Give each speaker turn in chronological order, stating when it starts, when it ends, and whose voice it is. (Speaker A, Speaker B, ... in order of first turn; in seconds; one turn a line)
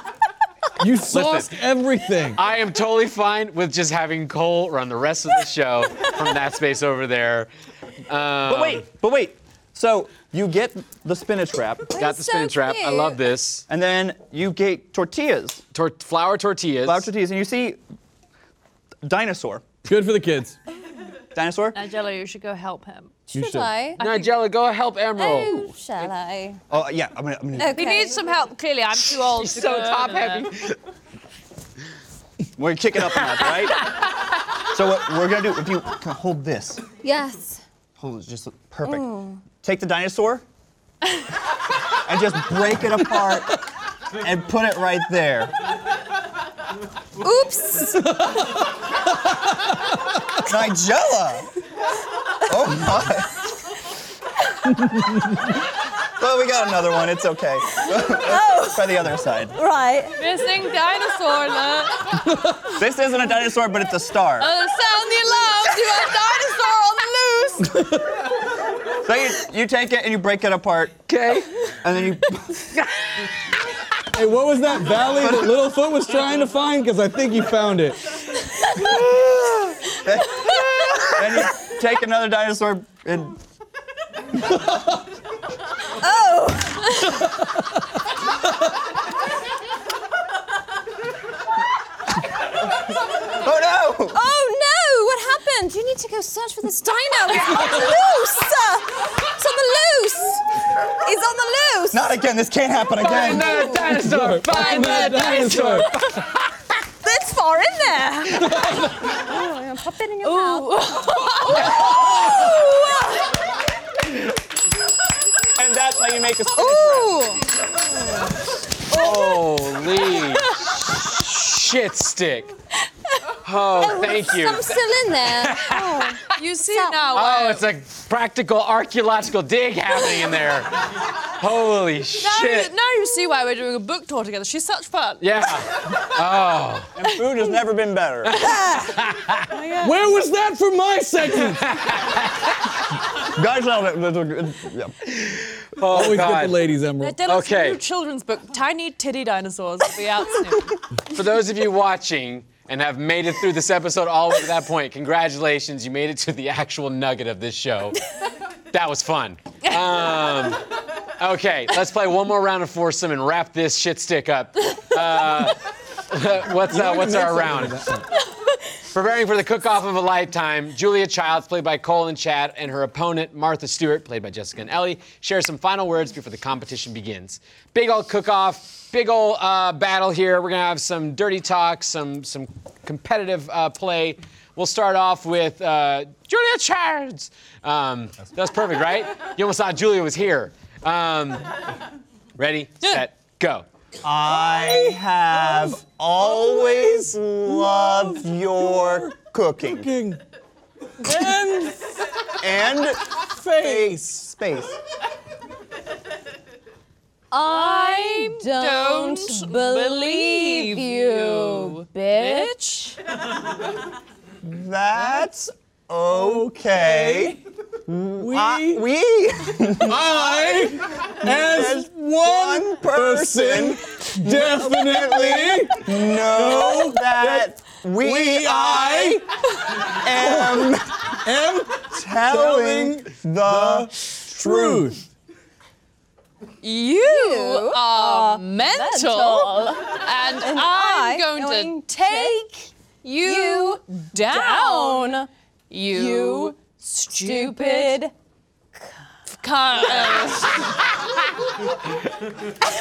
Speaker A: 0.8-2.4
Speaker B: 1.1-1.6
Speaker B: 2.4-7.5
Speaker B: 8.1-8.8
Speaker C: 8.5-11.9
Speaker D: 11.9-13.2
Speaker B: 11.9-13.6
Speaker C: 13.7-15.6
Speaker B: 15.7-17.1
Speaker C: 16.8-17.8
Speaker C: 19.0-19.6
Speaker A: 19.8-20.6
Speaker C: 21.3-21.8
Speaker E: 21.7-23.2
Speaker D: 23.3-24.0
Speaker A: 23.3-23.7
Speaker E: 24.0-24.3
Speaker B: 24.0-25.6
Speaker D: 25.2-26.6
Speaker C: 26.7-27.8
Speaker D: 27.6-28.3
Speaker E: 27.7-30.5
Speaker B: 29.3-30.8
Speaker C: 32.6-34.0
Speaker C: 34.6-36.8
Speaker D: 37.0-37.6
Speaker C: 38.0-40.4
Speaker D: 38.8-39.4
Speaker C: 42.0-43.6
Speaker C: 44.2-45.5
Speaker D: 47.2-48.2
Speaker C: 50.4-51.5
Speaker C: 52.4-53.3
Speaker A: 54.9-55.2
Speaker C: 56.2-59.5
Speaker D: 57.9-58.9
Speaker D: 59.5-60.2
Speaker E: 60.2-62.2
Speaker A: 62.2-62.7
Speaker C: 62.8-64.5
Speaker E: 64.4-67.8
Speaker A: 67.6-68.3
Speaker C: 69.0-71.0
Speaker B: 71.1-71.5
Speaker C: 71.8-72.7
Speaker A: 74.1-78.0
Speaker C: 75.2-75.5
Speaker C: 78.8-83.4
Speaker A: 84.6-84.8
Speaker D: 85.9-87.4
Speaker C: 93.4-94.2
Speaker D: 94.1-100.5
Speaker D: 101.0-102.0
Speaker C: 101.9-103.8
Speaker B: 103.0-106.5
Speaker D: 103.2-103.9
Speaker A: 103.9-105.9
Speaker D: 104.5-105.5
Speaker D: 107.0-110.8
Speaker E: 110.2-111.7
Speaker D: 111.4-113.3
Speaker C: 115.5-117.2
Speaker D: 116.5-117.4
Speaker D: 118.9-119.6
Speaker B: 118.9-122.5
Speaker E: 120.2-120.7
Speaker B: 123.4-126.1
Speaker D: 123.7-127.2
Speaker E: 126.3-127.6
Speaker B: 127.1-132.7
Speaker E: 132.2-135.3
Speaker B: 135.2-136.9
Speaker C: 136.9-138.3
Speaker B: 138.2-139.5
Speaker E: 139.5-140.0
Speaker A: 139.8-141.7
Speaker B: 141.5-142.5
Speaker C: 143.2-145.0
Speaker B: 145.1-146.6
Speaker A: 145.9-147.2
Speaker E: 147.0-150.8
Speaker B: 147.2-147.8
Speaker B: 151.1-158.0
Speaker B: 158.7-165.6
Speaker B: 166.1-167.8
Speaker A: 166.7-168.1
Speaker B: 168.9-191.5
Speaker B: 192.3-193.7
Speaker C: 194.0-199.9
Speaker A: 194.3-200.2
Speaker A: 201.0-201.9
Speaker C: 202.4-204.8
Speaker A: 203.3-204.1
Speaker D: 207.3-212.9
Speaker E: 207.4-212.9
Speaker C: 214.4-229.3
Speaker A: 216.1-217.4
Speaker A: 218.2-218.8
Speaker A: 219.8-229.2
Speaker C: 229.8-230.9
Speaker A: 229.8-235.0
Speaker C: 231.8-234.9
Speaker E: 236.6-242.5
Speaker D: 236.9-245.3
Speaker E: 243.0-245.2
Speaker E: 245.7-248.0
Speaker D: 245.9-248.1
Speaker E: 249.3-250.8